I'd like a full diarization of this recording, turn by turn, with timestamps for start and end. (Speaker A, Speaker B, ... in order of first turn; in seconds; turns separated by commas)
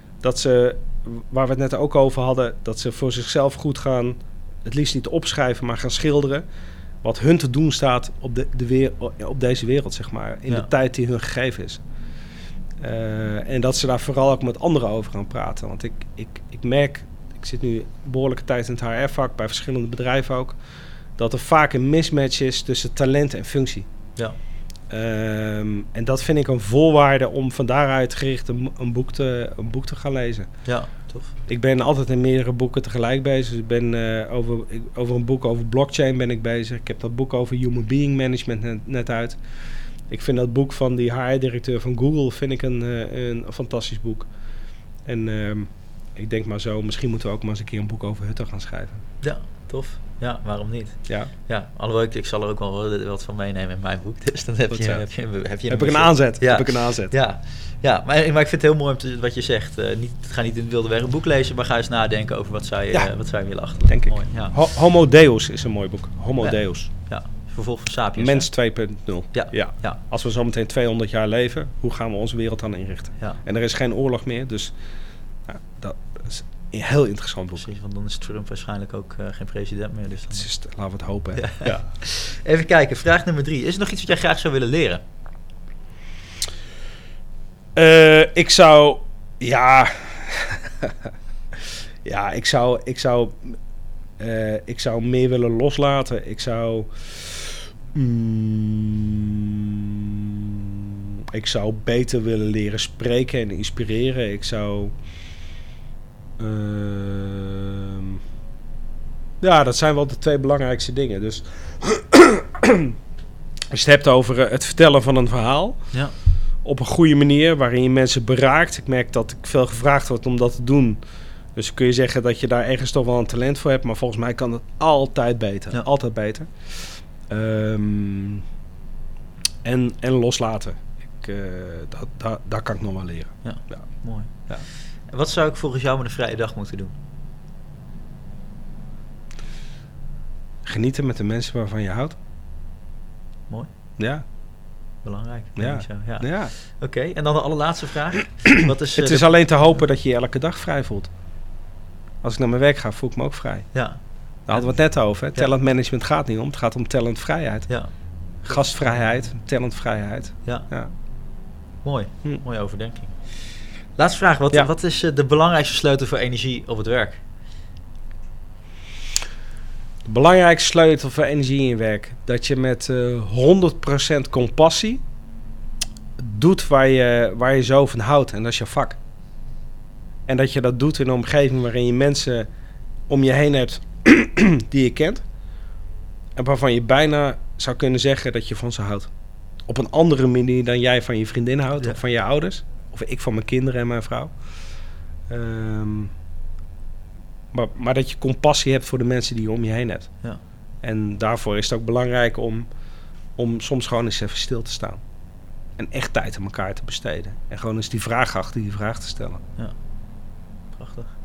Speaker A: 0.2-6.4, Speaker A: 7.0-11.8, Speaker A: 12.8-20.6, Speaker A: 21.2-23.9, Speaker A: 24.9-30.5, Speaker B: 30.6-31.3, Speaker A: 31.5-39.4, Speaker A: 40.1-44.3, Speaker A: 45.0-49.0, Speaker B: 49.2-64.5, Speaker A: 54.7-55.1, Speaker A: 55.7-57.1, Speaker A: 63.8-66.9, Speaker B: 66.4-68.5, Speaker A: 68.2-74.7, Speaker B: 69.3-70.0, Speaker A: 75.5-77.7, Speaker B: 77.6-80.5, Speaker A: 80.3-81.9, Speaker B: 81.3-85.0, Speaker A: 87.8-91.1, Speaker A: 92.0-93.5, Speaker A: 94.2-100.1, Speaker A: 101.3-104.9, Speaker A: 106.4-108.2, Speaker A: 109.4-112.9, Speaker A: 113.7-115.9, Speaker A: 116.6-121.0, Speaker A: 121.5-128.4, Speaker A: 129.6-133.9, Speaker B: 133.4-134.3, Speaker B: 135.1-136.9, Speaker A: 140.7-142.2, Speaker A: 144.0-144.2, Speaker B: 145.0-149.8, Speaker A: 145.6-146.5, Speaker A: 148.9-151.1, Speaker A: 152.2-153.7, Speaker B: 153.7-154.7, Speaker A: 154.5-157.7, Speaker A: 158.4-160.9, Speaker B: 161.8-167.2, Speaker A: 170.1-175.0, Speaker A: 176.2-179.0, Speaker A: 180.3-182.5, Speaker A: 183.1-185.2, Speaker A: 186.4-189.1, Speaker A: 189.7-194.3, Speaker A: 195.3-196.1, Speaker A: 197.5-200.1, Speaker A: 200.8-202.7, Speaker A: 203.4-205.0, Speaker A: 205.8-209.4, Speaker B: 210.7-211.1